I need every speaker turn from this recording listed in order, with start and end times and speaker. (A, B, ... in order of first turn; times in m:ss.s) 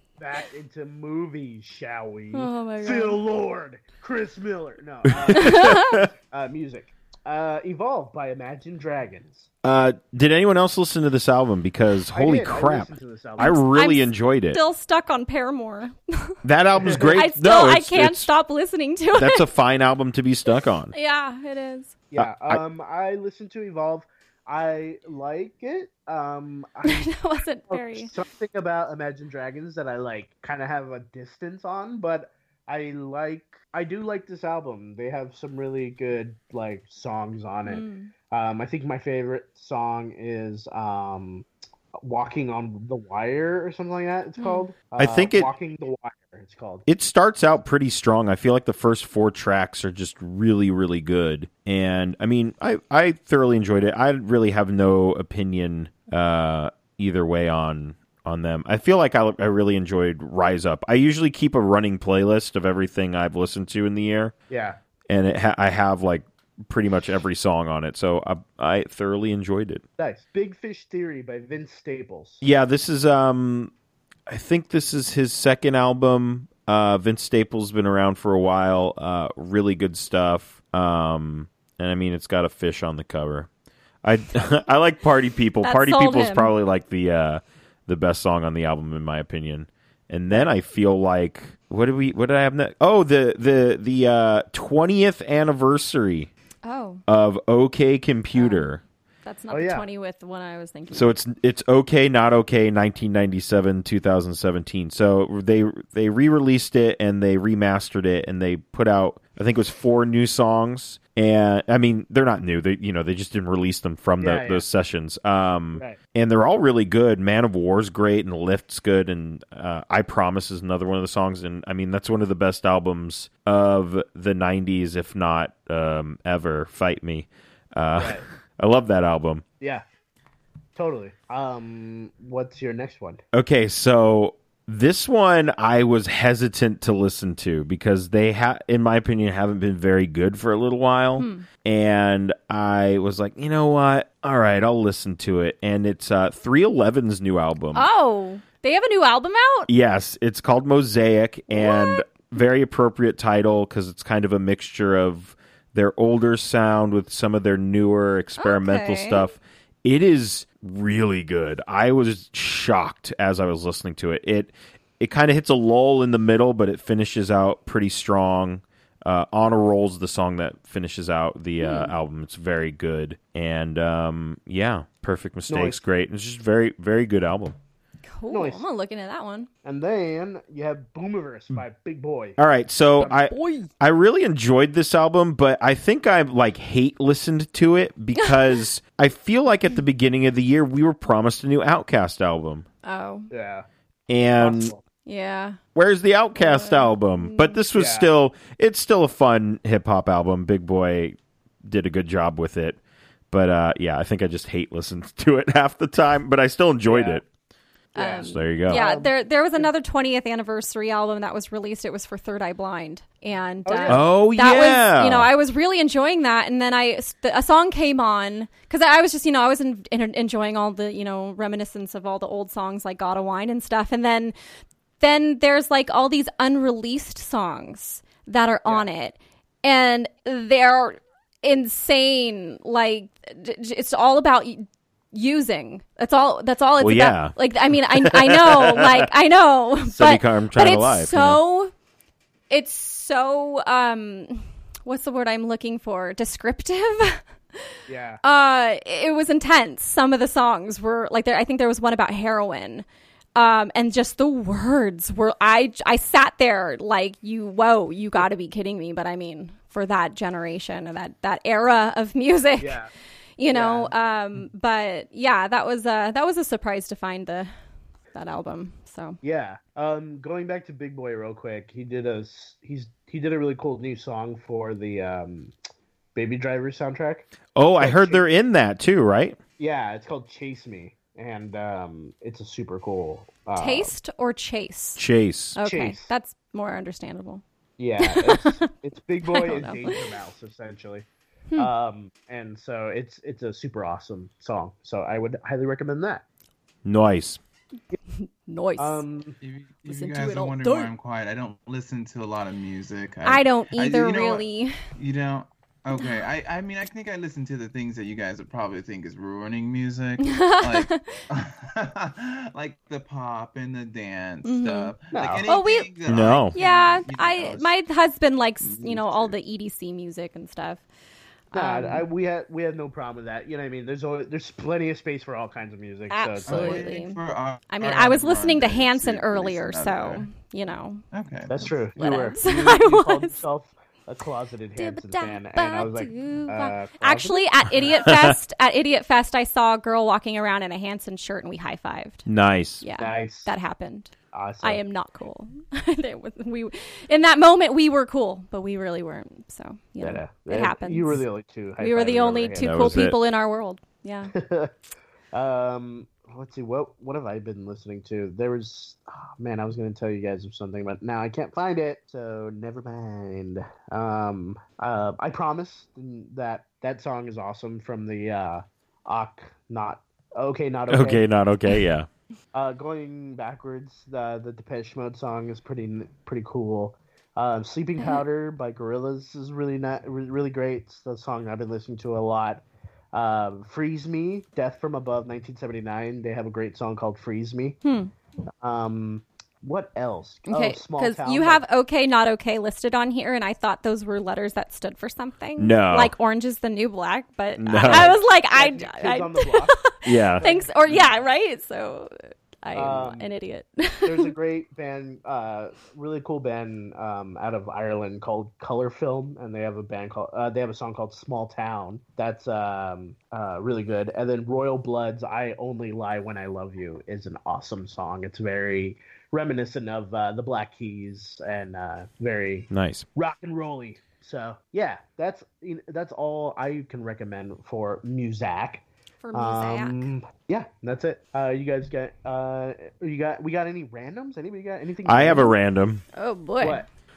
0:00.2-0:09.5 A
0:02.3-0:03.2 B
0:05.1-0:06.1 C
0:05.3-0:06.0 B
0:09.6-0:14.6 C
0:12.1-0:13.6 A
0:13.4-0:16.4 B
0:16.4-0:18.3 C
0:16.8-0:17.2 A
0:17.1-0:19.5 B
0:19.2-0:20.9 C
0:20.9-0:22.0 B
0:22.1-0:27.1 A
0:22.2-0:22.6 C
0:26.8-0:28.1 B
0:27.7-0:41.5 A
0:37.7-0:38.1 B
0:42.0-0:46.9 A
0:44.4-0:44.7 B
0:45.0-0:45.5 C
0:46.9-1:04.3 C
1:04.5-1:04.8 A
1:05.1-1:09.8 C
1:10.0-1:12.4 A
1:12.4-1:13.7 C
1:14.3-1:23.5 C
1:24.0-1:36.3 C
1:25.6-1:26.6 B
1:36.6-1:37.0 B
1:37.1-1:38.8 C
1:38.3-1:38.7 B
1:39.2-1:41.2 B
1:39.5-1:39.9 A
1:40.9-2:09.4 C
1:54.2-1:54.6 A
2:08.0-2:08.2 A
2:10.8-2:13.2 A
2:13.3-2:27.9 C
2:21.2-2:21.5 B
2:27.7-2:29.7 B
2:29.7-2:57.6 C
2:31.5-2:32.1 B
2:38.4-2:39.3 B
2:51.6-2:51.9 B
2:55.5-2:55.8 A
2:58.0-2:59.5 B
2:58.3-2:58.6 A
2:59.6-3:02.4 A
3:02.4-3:12.7 C
3:03.0-3:03.7 B
3:08.2-3:08.6 B
3:12.8-3:13.3 B
3:13.3-3:13.7 A
3:14.1-3:14.7 C
3:14.4-3:14.8 A
3:15.0-3:15.6 B
3:15.8-3:22.8 C
3:16.4-3:17.6 B
3:17.8-3:18.1 A
3:23.3-3:27.2 C
3:26.9-3:27.2 A
3:27.9-3:44.4 B
3:28.0-3:29.7 A
3:28.2-3:28.8 C
3:33.7-3:34.1 A
3:33.9-3:35.3 C
3:45.0-4:01.7 B
3:56.8-3:57.4 C
3:57.9-3:59.1 C
3:59.8-4:01.4 C
4:02.5-4:07.2 B
4:07.9-4:08.2 A
4:08.2-4:22.8 B
4:22.6-4:22.9 A
4:23.4-4:27.5 B
4:23.5-4:24.0 A
4:28.1-4:29.2 B
4:29.2-4:35.5 A
4:36.2-4:38.2 A
4:37.6-4:39.4 C
4:39.6-4:43.9 A
4:43.6-4:45.0 B
4:45.0-4:45.6 C
4:45.6-4:47.4 B
4:45.6-4:46.1 A
4:47.8-4:51.1 A
4:48.0-4:48.7 B
4:49.3-4:50.1 B
4:51.6-4:56.2 A
4:56.8-4:57.4 C
4:58.2-4:59.0 B
4:58.8-4:59.4 A
4:59.4-5:17.7 D
4:59.9-5:00.9 B
5:03.2-5:04.8 B
5:06.0-5:06.2 B
5:10.2-5:11.2 B
5:14.4-5:14.9 B
5:15.1-5:15.5 A
5:15.5-5:15.9 B
5:16.1-5:16.5 C
5:16.5-5:20.8 B
5:18.6-5:19.4 D
5:21.5-5:22.0 B
5:21.5-5:26.9 A
5:26.1-5:27.2 B
5:26.5-5:30.2 D
5:27.7-5:31.0 B
5:31.1-5:31.9 D
5:31.5-5:38.1 A
5:32.0-5:33.4 B
5:34.8-5:42.2 B
5:38.1-5:38.3 C
5:42.3-5:42.8 C
5:42.8-5:51.2 B
5:43.0-5:43.5 A
5:44.3-5:44.8 A
5:50.0-5:53.1 A
5:51.8-5:54.3 B
5:52.6-5:53.2 C
5:54.3-5:54.7 A
5:55.3-6:11.2 A
6:10.9-6:12.1 C
6:12.5-6:27.8 A
6:27.8-6:28.1 B
6:28.6-6:31.6 A
6:30.5-6:44.3 B
6:35.6-6:36.1 C
6:37.6-6:38.2 C
6:37.8-6:39.8 A
6:40.0-6:40.4 C
6:40.4-6:41.1 A
6:42.7-6:43.3 A
6:44.0-7:15.6 A
7:02.7-7:03.1 C
7:09.2-7:10.1 B
7:15.0-7:16.0 C
7:16.1-7:16.9 B
7:16.6-7:16.9 A